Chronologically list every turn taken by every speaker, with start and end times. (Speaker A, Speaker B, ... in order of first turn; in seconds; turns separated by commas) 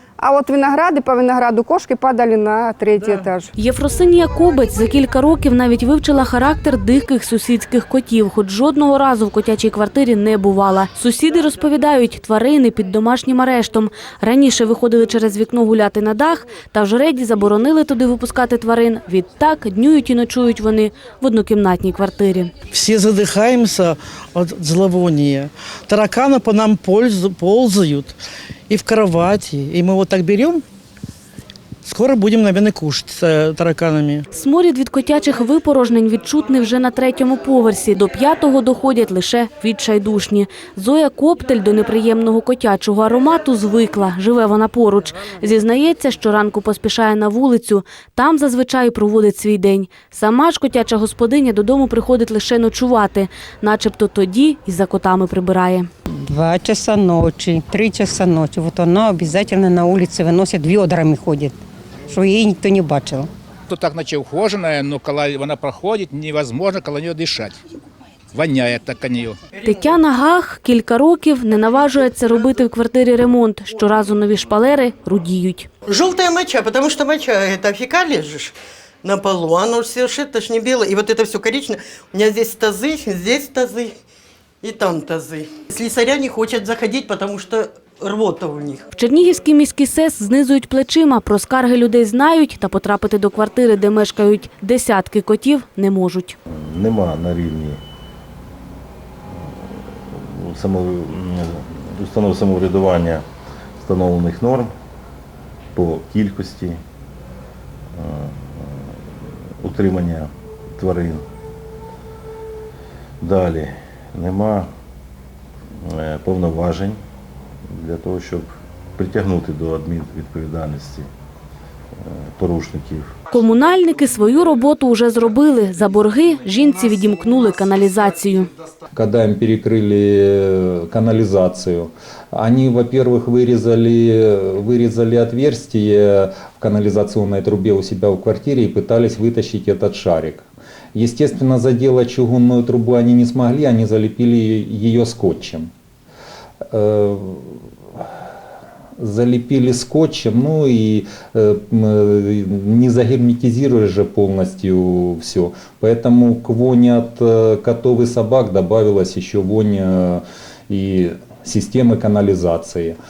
Speaker A: 0.2-3.5, Speaker B: 3.6-22.5, Speaker C: 22.7-28.1, Speaker C: 28.7-30.6, Speaker C: 31.9-34.2, Speaker B: 34.3-55.9, Speaker D: 56.3-61.5, Speaker D: 62.1-63.3, Speaker E: 63.7-67.6, Speaker E: 68.3-69.4, Speaker B: 69.6-75.7, Speaker F: 75.9-78.5, Speaker F: 79.0-83.9, Speaker F: 84.6-88.8, Speaker B: 88.9-96.3, Speaker G: 96.5-97.8, Speaker G: 99.3-103.2, Speaker G: 103.8-104.7, Speaker G: 105.8-106.8, Speaker G: 108.0-111.2, Speaker G: 113.2-114.7, Speaker G: 115.8-117.0, Speaker G: 117.7-121.1, Speaker G: 122.0-123.1, Speaker B: 123.3-128.5, Speaker H: 128.9-145.7, Speaker H: 146.7-148.1, Speaker H: 149.0-163.0